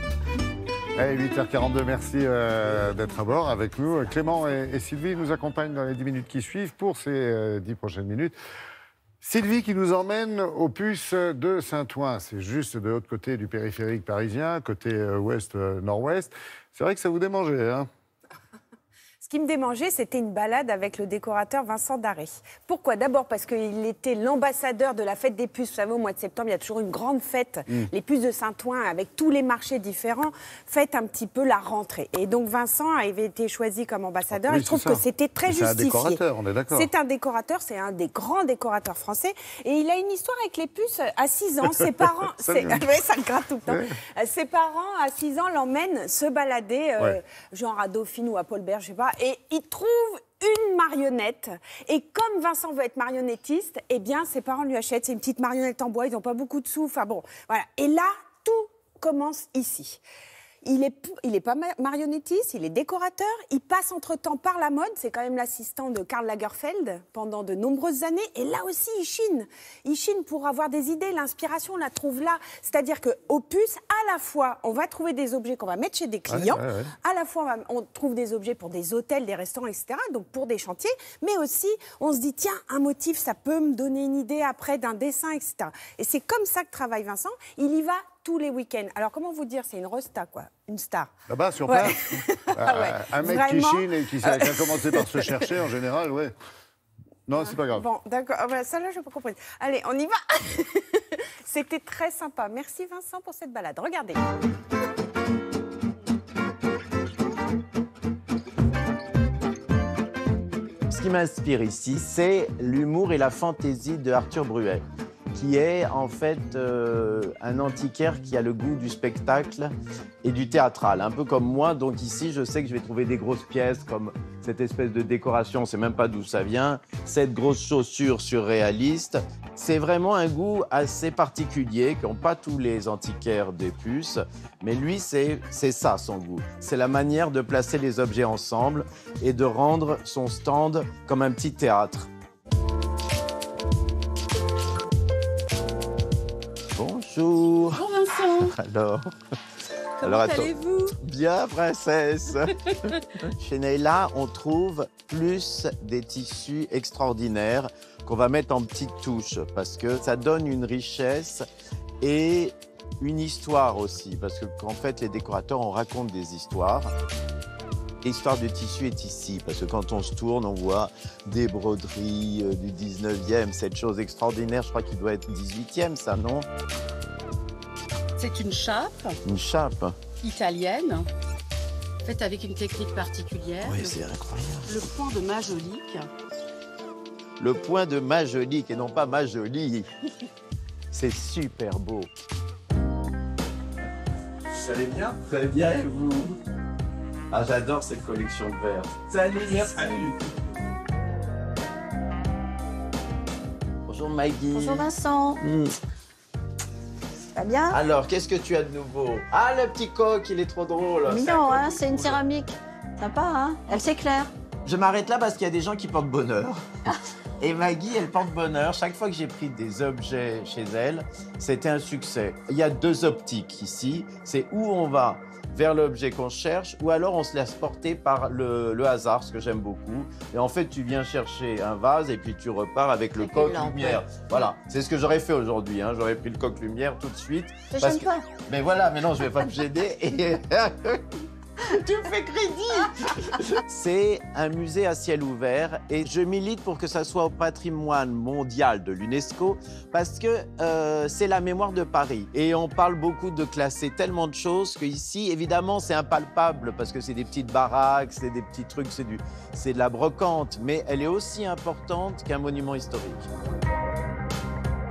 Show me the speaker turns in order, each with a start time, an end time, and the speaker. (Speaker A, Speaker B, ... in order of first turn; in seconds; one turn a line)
Speaker A: 1.0-8.4
Speaker A: 9.2-17.9
Speaker B: 19.2-60.0
Speaker A: 34.3-36.9
Speaker A: 42.4-42.8
Speaker A: 43.7-43.9
Speaker B: 60.6-91.1
Speaker A: 76.3-76.9
Speaker A: 91.3-96.3
Speaker B: 91.6-95.5
Speaker A: 97.3-97.9
Speaker B: 97.4-104.2
Speaker C: 110.9-119.7
Speaker C: 120.2-142.1
Speaker C: 146.7-149.1
Speaker D: 147.7-148.5
Speaker D: 150.0-150.9
Speaker C: 150.0-161.4
Speaker C: 162.0-166.9
Speaker C: 168.0-176.5
Speaker D: 178.2-179.2
Speaker C: 179.2-180.0
Speaker D: 180.2-181.1
Speaker D: 182.0-184.0
Speaker C: 183.6-184.8
Speaker D: 184.7-186.1
Speaker C: 187.4-189.9
Speaker C: 190.9-192.1
Speaker C: 194.6-196.4
Speaker C: 197.3-200.3
Speaker C: 203.9-205.7
Speaker E: 204.5-205.4
Speaker E: 207.3-207.8
Speaker C: 207.7-212.2
Speaker E: 211.1-214.3
Speaker C: 214.7-216.6
Speaker C: 217.4-241.0
Speaker E: 233.4-234.0
Speaker E: 237.7-238.3
Speaker C: 241.6-263.3